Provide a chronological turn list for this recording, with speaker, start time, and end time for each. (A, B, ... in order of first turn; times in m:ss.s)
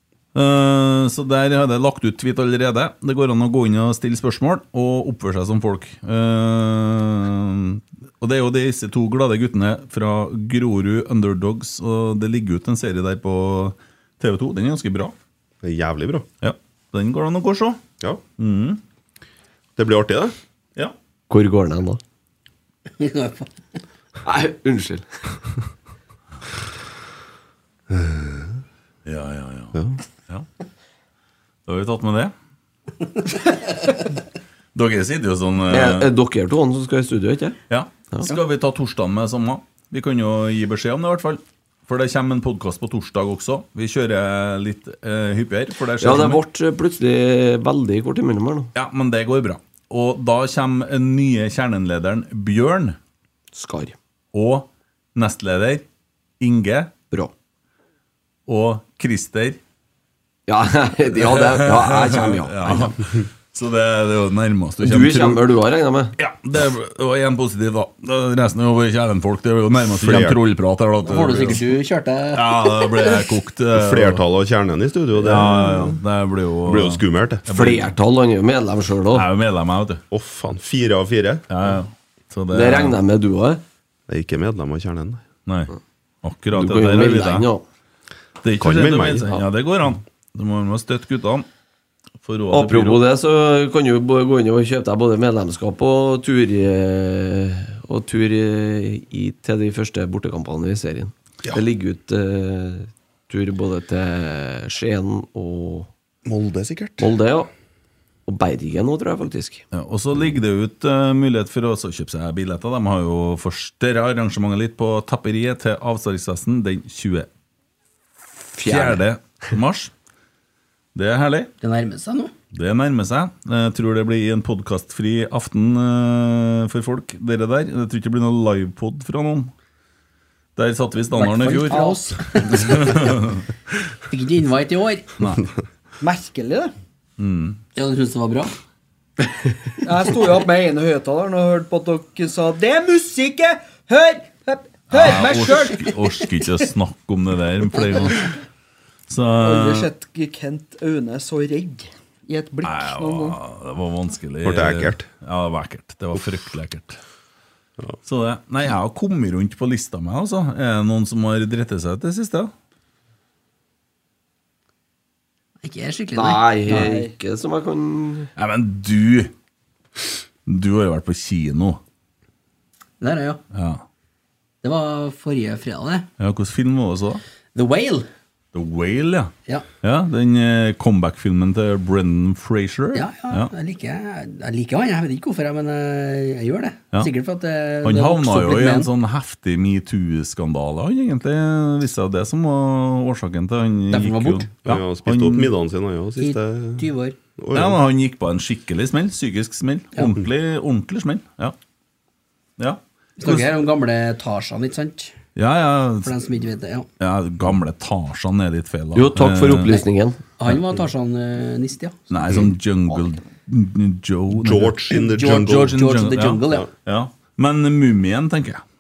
0:00.3-0:15.2 A
0:15.6-0:16.3 B
0:16.4-0:17.8 A
0:18.4-0:18.8 A
0:19.8-0:20.4 B
0:21.3-0:22.0 C
0:23.0-0:23.5 D
0:24.2-0:25.1 C
0:27.9-0:28.5 B
0:29.0-0:30.5 A
0:31.7-0:32.3 A
0:34.7-0:36.1 A
0:35.7-0:37.6 C
0:37.7-0:46.4 A
0:46.0-0:48.7 C
0:48.8-0:53.0 A
0:53.5-0:54.0 C
0:54.3-0:55.8 A
0:56.4-0:56.9 A
0:58.5-0:59.6 A
1:00.5-1:03.0 C
1:01.3-1:05.4 A
1:04.8-1:06.2 C
1:06.2-1:11.6 A
1:09.9-1:10.4 B
1:11.0-1:13.2 D
1:12.3-1:14.2 A
1:13.7-1:16.0 B
1:15.2-1:17.9 A
1:16.6-1:17.5 B
1:17.5-1:19.3 C
1:19.1-1:20.0 A
1:20.1-1:21.5 B
1:21.5-1:23.0 A
1:22.5-1:23.6 C
1:24.1-1:25.2 B
1:25.5-1:27.5 A
1:26.5-1:27.6 C
1:28.4-1:31.5 A
1:28.6-1:29.4 B
1:32.2-1:33.0 A
1:32.5-1:45.9 C
1:46.3-1:47.1 B
1:47.0-1:47.5 C
1:48.3-1:49.6 C
1:49.7-1:57.3 A
1:58.6-1:59.0 C
1:58.6-1:59.9 A
2:01.0-2:01.5 A
2:01.6-2:02.3 D
2:02.5-2:09.5 A
2:10.6-2:11.9 A
2:11.2-2:13.2 D
2:11.7-2:12.2 E
2:12.5-2:13.4 A
2:14.1-2:15.2 D
2:16.0-2:16.7 E
2:17.2-2:17.6 A
2:17.8-2:18.5 D
2:19.8-2:26.0 E
2:24.9-2:28.3 A
2:29.1-2:29.9 A
2:29.4-2:33.4 E
2:32.6-2:37.0 A
2:34.4-2:35.1 B
2:38.0-2:42.5 A
2:45.6-2:46.9 D
2:46.2-2:48.3 C
2:46.7-2:47.1 E
2:48.4-2:49.3 A
2:50.5-2:51.8 A
2:53.0-2:53.4 D
2:53.5-2:53.8 A
2:54.6-2:56.1 D
2:56.2-2:57.2 A
2:57.6-2:58.1 D
2:58.5-3:03.5 A
3:02.9-3:08.9 D
3:07.8-3:15.5 A
3:13.9-3:14.5 D
3:14.6-3:17.8 B
3:16.2-3:17.2 D
3:17.5-3:21.6 A
3:22.6-3:23.5 A
3:23.2-3:25.1 D
3:25.4-3:26.1 A
3:26.0-3:26.9 D
3:27.0-3:29.8 A
3:28.9-3:30.2 C
3:30.4-3:32.1 D
3:32.1-3:38.6 A
3:34.3-3:35.8 B
3:34.9-3:36.7 D